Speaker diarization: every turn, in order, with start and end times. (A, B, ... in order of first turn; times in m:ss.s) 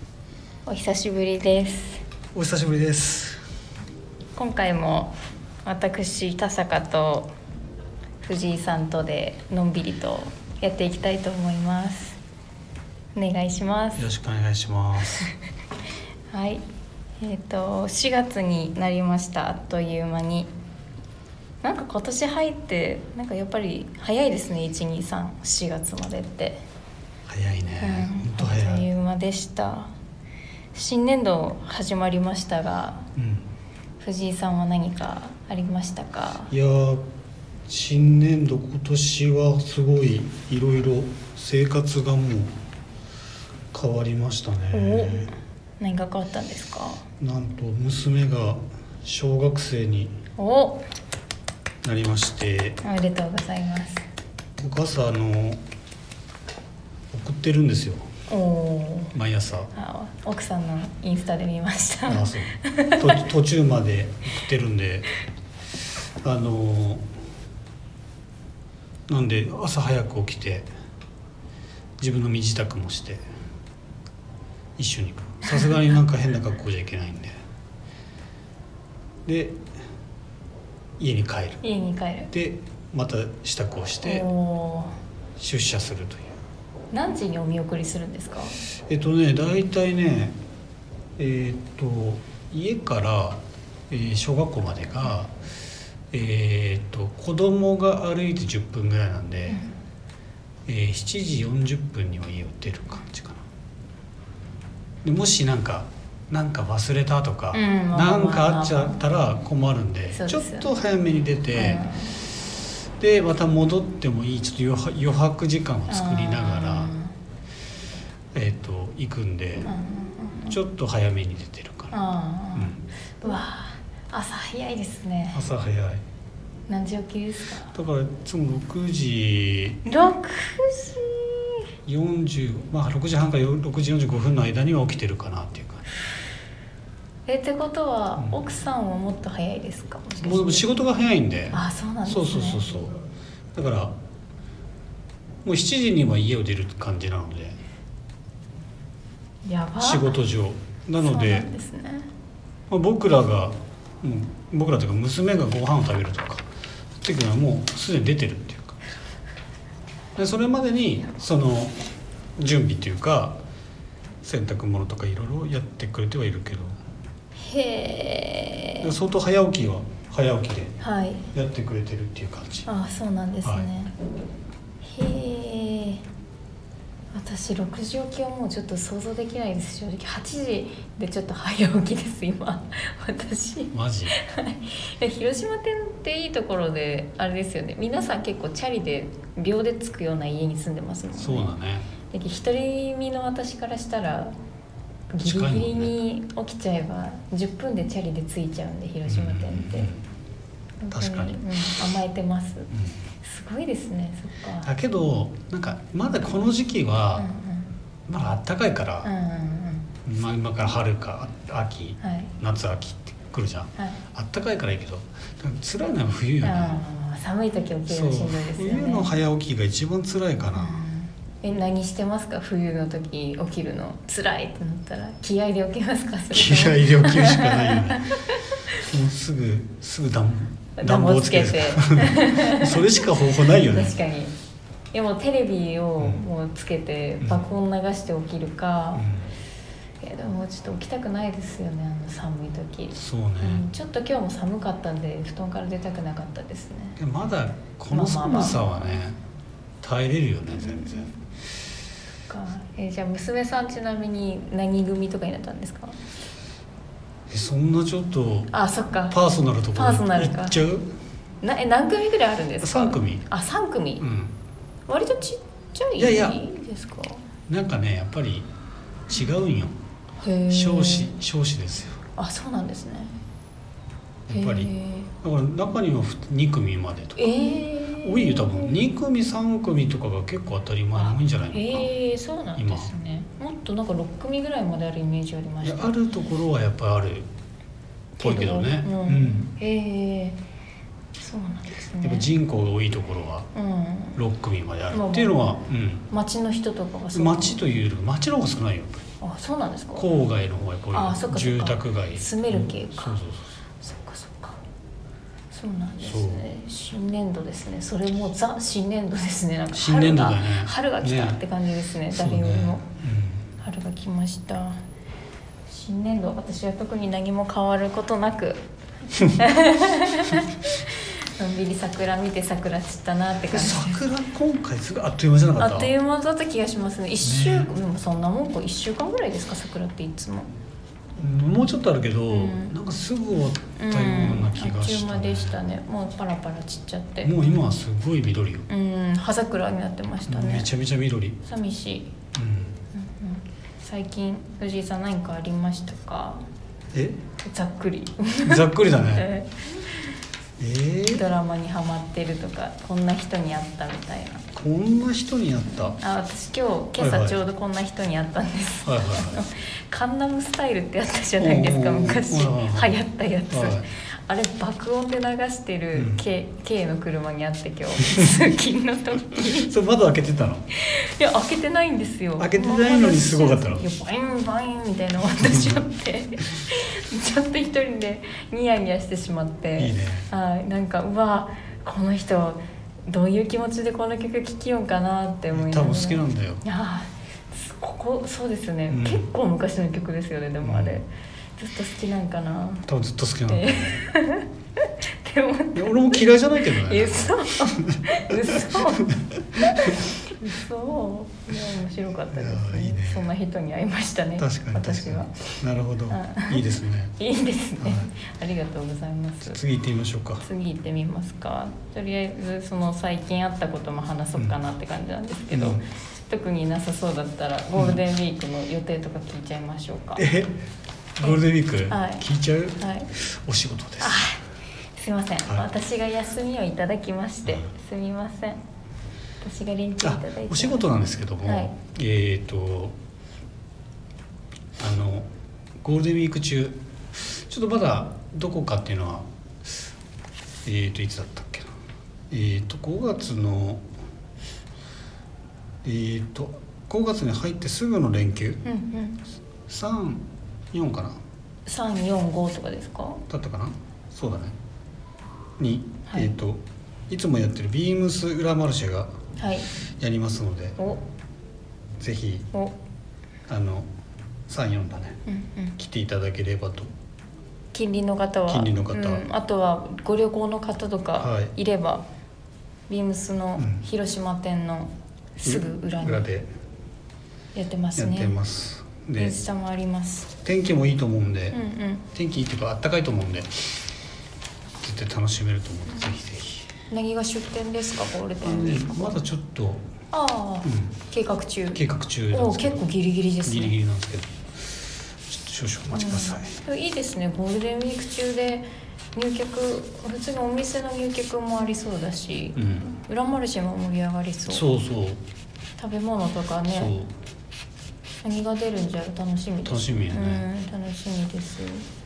0:00.6-0:02.0 A
0:02.3-0:03.4 B
0:04.4-0:05.1 A
0:05.6-0:07.3 A
0:08.2-0:12.2 A
0:13.1-0:14.0 A
0:14.0-0:15.3 B
0:16.3-0:16.6 A
0:17.2-0:20.5 A
0:21.6-0:26.6 A
0:27.3-0:28.8 B
0:27.8-0:29.9 A
0:30.7-0:33.1 A
0:33.2-0:33.5 B
0:34.0-0:36.5 A
0:36.5-0:37.0 B
0:37.7-0:42.6 B
0:43.7-0:45.3 B
0:44.7-0:47.0 A
0:47.2-0:50.1 B
0:50.4-0:50.8 A
0:51.8-0:52.8 B
0:52.8-0:54.0 A
0:54.6-0:55.6 B
0:57.1-0:58.1 B
0:58.3-0:59.1 A
0:59.1-0:59.7 B
0:59.7-1:03.2 A
1:02.1-1:05.1 B
1:06.2-1:07.1 B
1:09.1-1:10.7 B
1:12.0-1:13.2 B
1:14.8-1:17.4 B
1:19.2-1:19.6 B
1:21.0-1:21.6 B
1:21.6-1:22.3 A
1:22.3-1:24.3 B
1:24.0-1:24.9 A
1:25.4-1:26.3 B
1:26.9-1:28.6 A
1:28.9-1:30.4 B
1:31.2-1:35.3 B
1:36.1-1:39.6 B
1:40.6-1:43.4 B
1:45.0-1:51.8 B
1:47.5-1:49.0 A
1:50.1-1:50.7 A
1:51.5-1:52.2 A
1:53.0-1:56.9 B
1:55.9-1:57.1 A
1:58.3-1:59.7 B
1:59.6-2:00.6 A
2:00.5-2:01.9 B
2:01.9-2:05.4 A
2:02.5-2:02.8 B
2:05.3-2:06.0 B
2:06.7-2:07.7 A
2:07.7-2:09.8 B
2:09.8-2:11.7 A
2:11.8-2:15.8 B
2:17.3-2:20.7 A
2:20.2-2:23.0 B
2:21.5-2:22.6 A
2:23.5-2:23.9 B
2:25.4-2:27.6 B
2:29.4-2:30.2 A
2:29.8-2:31.5 B
2:31.0-2:32.1 A
2:32.7-2:36.4 B
2:37.0-2:38.8 B
2:40.2-2:41.7 B
2:42.4-2:43.4 B
2:44.2-2:46.8 B
2:47.4-2:48.9 A
2:48.8-2:50.8 B
2:50.8-2:51.3 A
2:51.3-2:52.7 B
2:52.6-2:53.9 A
2:54.8-2:56.0 A
2:57.1-3:11.5 A
3:03.7-3:04.1 B
3:11.2-3:11.9 B
3:12.1-3:14.3 A
3:15.1-3:19.9 A
3:15.2-3:15.9 B
3:19.1-3:20.0 B
3:20.8-3:22.7 A
3:20.9-3:21.5 B
3:23.2-3:24.7 A
3:24.6-3:27.3 B
3:27.2-3:27.7 A
3:28.1-3:29.1 B
3:29.0-3:29.9 A
3:30.0-3:36.8 B
3:32.0-3:32.3 A
3:36.4-3:39.1 A
3:37.9-3:40.8 B
3:40.5-3:48.8 A
3:46.3-3:48.1 B
3:48.8-3:54.0 B
3:50.8-3:54.3 A
3:54.9-3:59.1 A
3:59.0-3:59.3 B
4:00.0-4:07.0 A
4:02.9-4:03.6 B
4:07.0-4:09.2 B
4:07.9-4:08.6 A
4:09.8-4:11.1 B
4:10.5-4:11.1 A
4:12.3-4:16.0 A
4:17.3-4:18.5 B
4:18.5-4:19.2 A
4:19.1-4:20.9 B
4:19.7-4:20.6 A
4:21.4-4:24.0 A
4:22.6-4:23.2 B
4:24.0-4:24.3 B
4:24.9-4:27.2 A
4:26.0-4:26.4 B
4:27.5-4:28.5 B
4:29.1-4:29.8 B
4:30.2-4:31.1 A
4:30.5-4:32.0 B
4:32.2-4:33.1 A
4:34.3-4:34.7 B
4:34.3-4:35.1 A
4:35.2-4:37.3 B
4:37.2-4:38.7 A
4:38.0-4:41.9 B
4:41.0-4:46.3 A
4:42.6-4:42.9 B
4:45.6-4:47.3 B
4:48.2-4:50.4 A
4:48.2-4:49.5 B
4:51.2-4:52.3 A
4:52.0-4:53.5 B
4:53.5-4:54.2 A
4:54.2-4:56.0 B
4:54.9-4:55.5 A
4:56.1-4:57.6 A
4:57.1-4:59.0 B
4:59.2-5:00.1 A
5:00.0-5:03.6 B
5:00.9-5:03.2 A
5:03.8-5:04.6 A
5:05.5-5:12.8 A
5:06.0-5:06.4 B
5:09.7-5:11.4 B
5:12.1-5:13.4 B
5:13.6-5:14.8 A
5:15.7-5:18.6 A
5:19.2-5:24.0 A
5:23.5-5:25.9 B
5:25.6-5:30.5 A
5:27.2-5:27.7 B
5:31.2-5:35.6 B
5:32.3-5:32.8 A
5:33.8-5:37.3 A
5:37.2-5:38.7 B
5:38.7-5:40.7 A
5:40.3-5:41.4 B
5:41.4-5:42.1 A
5:42.3-5:42.8 B
5:42.9-5:46.4 A
5:46.9-5:47.2 B
5:47.4-5:50.1 A
5:48.4-5:49.3 B
5:50.6-5:51.2 B
5:51.1-5:54.5 A
5:54.5-5:56.0 B
5:55.8-6:09.7 A
5:57.0-5:57.4 B
5:58.8-5:59.4 B
6:01.4-6:02.9 B
6:03.5-6:03.8 B
6:05.9-6:06.2 B
6:08.0-6:08.3 B
6:09.4-6:10.7 B
6:10.7-6:32.9 A
6:12.4-6:13.8 B
6:15.4-6:15.8 B
6:19.8-6:20.3 B
6:25.5-6:26.6 B
6:28.9-6:29.3 B
6:30.6-6:31.0 B
6:32.8-6:34.0 B
6:33.5-6:45.5 A
6:35.7-6:40.0 B
6:42.3-6:43.3 B
6:44.4-6:47.2 B
6:46.1-6:46.6 A
6:47.2-6:49.6 A
6:47.8-6:48.1 B
6:49.4-6:50.4 B
6:50.4-7:00.3 A
6:55.5-6:55.8 B
7:00.2-7:00.6 B
7:01.2-7:04.2 B
7:01.2-7:02.2 A
7:02.8-7:03.1 A
7:04.0-7:04.4 A
7:05.0-7:08.6 A
7:09.4-7:10.9 A
7:10.0-7:13.0 B
7:11.4-7:11.7 A
7:14.8-7:15.3 B
7:15.8-7:19.8 B
7:20.6-7:21.7 B
7:22.3-7:23.8 B
7:25.8-7:28.6 B
7:28.6-7:29.2 A
7:29.7-7:31.2 B
7:31.6-7:33.2 A
7:33.3-7:34.5 B
7:35.6-7:39.1 B
7:39.4-7:39.7 A
7:40.0-7:40.8 B
7:42.0-7:42.5 B
7:43.5-7:43.9 B
7:44.5-7:45.2 B
7:45.2-7:45.7 A
7:45.8-7:46.9 B
7:47.7-7:52.0 A
7:48.5-7:49.2 B
7:51.2-7:51.5 B
7:52.9-7:56.3 A
7:53.6-7:53.8 B
7:55.4-7:56.5 B
7:57.5-7:58.4 A
7:58.0-7:59.4 B
7:59.2-8:00.3 A
8:00.4-8:01.6 B
8:01.5-8:02.0 A
8:02.1-8:03.5 B
8:04.8-8:06.7 B
8:06.9-8:09.2 A
8:08.4-8:09.8 B
8:10.1-8:13.8 A
8:10.6-8:10.9 B
8:11.7-8:12.8 B
8:13.4-8:16.5 B
8:15.9-8:24.6 A
8:22.6-8:22.9 B
8:24.5-8:25.2 B
8:25.8-8:26.9 A
8:26.7-8:27.1 B
8:28.2-8:31.8 A
8:29.6-8:30.4 B